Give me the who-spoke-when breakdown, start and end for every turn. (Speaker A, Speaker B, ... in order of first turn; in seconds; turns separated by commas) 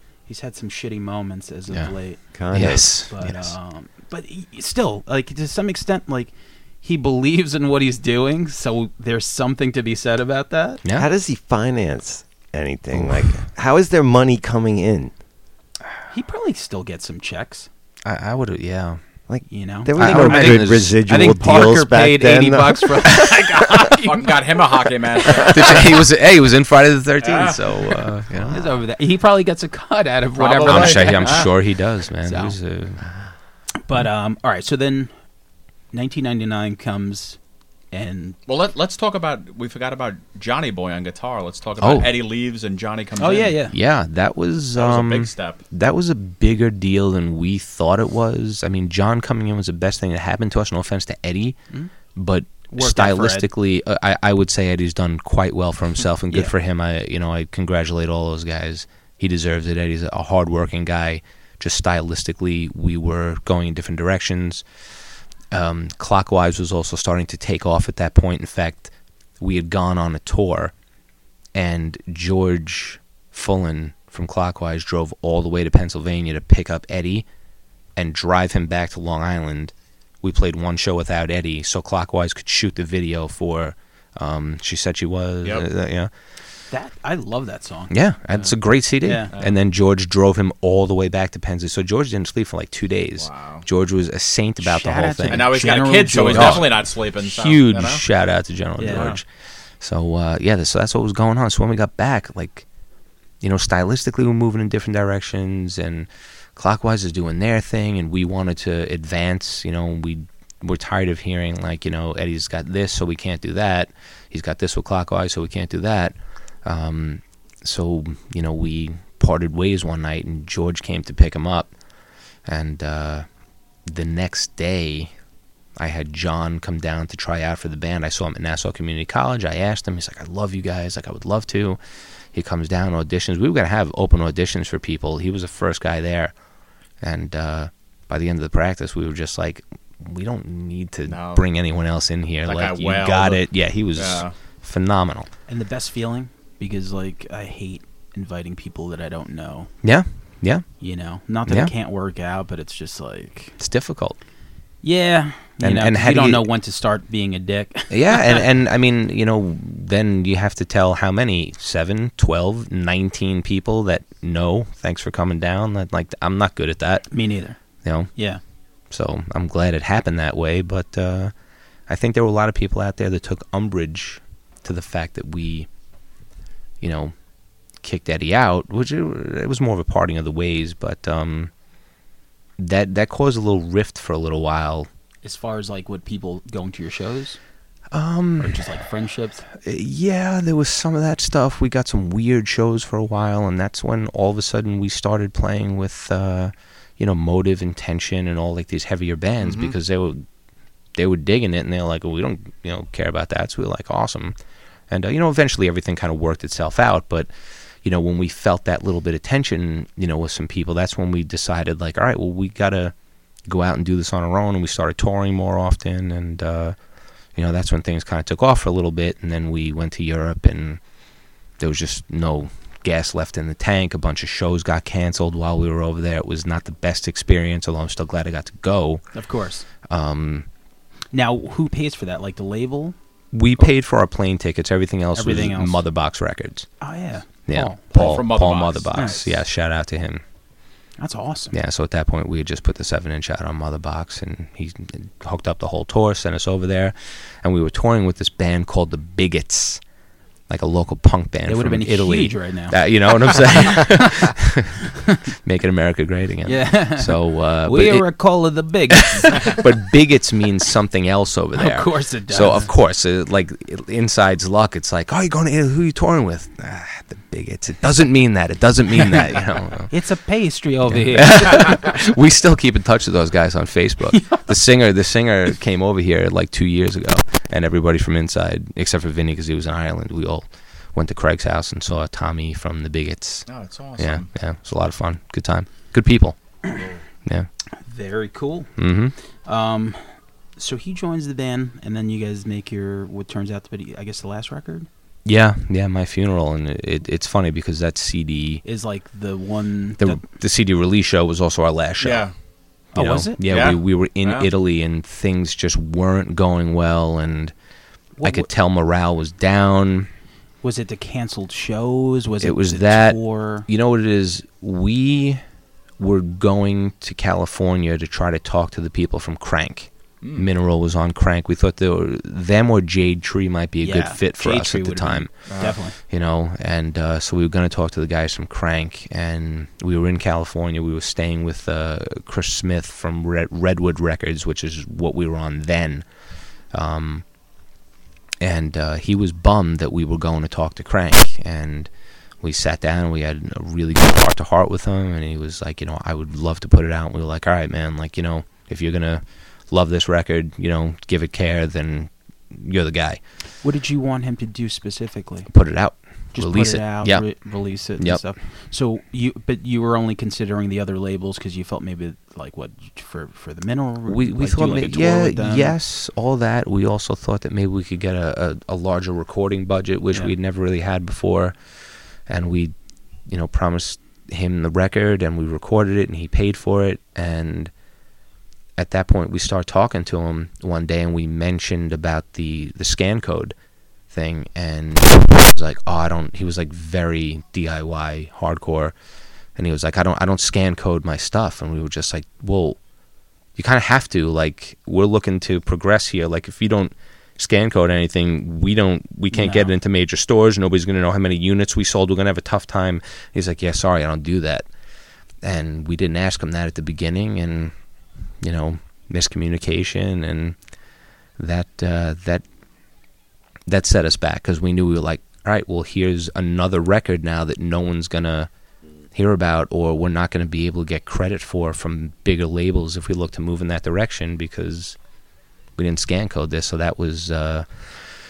Speaker A: 0.3-10.8, Speaker B: 2.3-2.9, Speaker C: 2.5-3.5, Speaker B: 10.9-15.1, Speaker C: 12.9-13.2, Speaker A: 16.1-17.7, Speaker C: 18.0-19.0, Speaker B: 19.3-23.2, Speaker A: 19.5-24.7, Speaker C: 20.0-21.0, Speaker D: 23.7-25.9, Speaker A: 25.3-25.5, Speaker C: 25.4-28.6, Speaker D: 27.2-28.0, Speaker A: 28.4-31.5, Speaker D: 30.4-31.5, Speaker C: 30.6-33.0, Speaker A: 32.2-32.5, Speaker A: 33.8-35.1, Speaker A: 35.9-37.4, Speaker A: 37.9-38.4, Speaker D: 38.5-43.6, Speaker C: 41.8-42.2, Speaker A: 43.2-43.7, Speaker C: 43.7-51.6, Speaker D: 44.8-45.6, Speaker C: 52.1-64.6, Speaker A: 52.7-53.5, Speaker C: 65.5-70.7, Speaker C: 71.5-77.2, Speaker C: 78.0-86.1, Speaker D: 85.4-85.7, Speaker A: 86.7-87.9, Speaker C: 87.9-95.5, Speaker A: 89.0-89.3, Speaker D: 93.2-93.6, Speaker A: 94.6-96.8, Speaker D: 95.3-98.0, Speaker C: 96.3-99.2, Speaker A: 98.8-99.2, Speaker D: 98.9-99.2, Speaker C: 99.8-102.7, Speaker C: 103.4-121.7, Speaker C: 122.5-123.2, Speaker C: 123.8-125.1, Speaker C: 125.8-131.8, Speaker C: 132.3-136.3, Speaker C: 137.0-145.3, Speaker D: 141.1-141.4, Speaker D: 142.4-144.3, Speaker A: 145.5-149.7, Speaker C: 149.8-150.6, Speaker A: 150.8-153.6, Speaker C: 151.5-151.7, Speaker C: 153.6-154.2, Speaker A: 154.8-158.4, Speaker C: 155.6-156.4, Speaker C: 157.9-167.1, Speaker A: 167.1-167.6, Speaker C: 167.8-168.1, Speaker A: 168.1-168.4, Speaker C: 168.9-171.3, Speaker C: 171.9-175.7, Speaker C: 176.8-177.1, Speaker C: 177.8-181.5, Speaker C: 182.6-184.9, Speaker A: 185.2-187.4, Speaker C: 187.9-188.7, Speaker A: 188.4-189.4, Speaker C: 189.6-200.2, Speaker D: 199.4-199.8, Speaker C: 200.9-204.3, Speaker C: 204.9-207.3, Speaker C: 207.8-212.9, Speaker C: 213.4-216.8, Speaker C: 217.3-220.8, Speaker C: 221.6-229.1, Speaker A: 229.1-229.7, Speaker C: 229.8-230.5, Speaker A: 231.1-232.9, Speaker C: 233.3-236.7, Speaker A: 235.1-235.8, Speaker A: 236.8-238.0, Speaker C: 237.5-240.2, Speaker D: 237.9-239.2, Speaker A: 238.9-239.3, Speaker A: 241.0-241.5, Speaker C: 241.5-249.8, Speaker C: 250.5-254.9, Speaker A: 251.5-254.2, Speaker C: 255.4-258.1, Speaker A: 256.4-259.6, Speaker C: 258.9-269.9, Speaker A: 261.6-262.7, Speaker A: 269.9-271.9, Speaker C: 270.9-283.4, Speaker D: 283.5-284.3, Speaker C: 284.0-286.4, Speaker A: 287.8-288.7, Speaker C: 288.8-289.1, Speaker A: 289.4-290.0, Speaker A: 290.6-294.9, Speaker C: 295.2-298.6, Speaker A: 298.6-300.2, Speaker C: 300.0-302.2, Speaker D: 302.0-302.3, Speaker A: 302.9-303.4, Speaker C: 302.9-307.5, Speaker D: 303.4-304.5, Speaker A: 308.2-308.5, Speaker C: 308.2-310.1, Speaker A: 310.6-313.7, Speaker C: 312.4-315.4, Speaker C: 316.0-336.1, Speaker A: 323.8-326.0, Speaker D: 325.5-325.7, Speaker C: 336.7-337.2, Speaker C: 338.4-341.9, Speaker C: 342.4-353.2, Speaker A: 353.6-355.5, Speaker C: 355.5-357.3, Speaker A: 356.3-365.7, Speaker C: 364.1-371.5, Speaker C: 372.3-372.7, Speaker C: 373.3-377.7, Speaker C: 378.8-383.5, Speaker C: 384.1-388.9, Speaker C: 389.6-392.8, Speaker C: 393.6-404.7, Speaker A: 399.3-399.7, Speaker C: 405.4-407.7, Speaker C: 408.4-410.6, Speaker C: 411.4-412.4, Speaker C: 413.7-418.5, Speaker C: 419.1-425.0, Speaker C: 425.8-428.0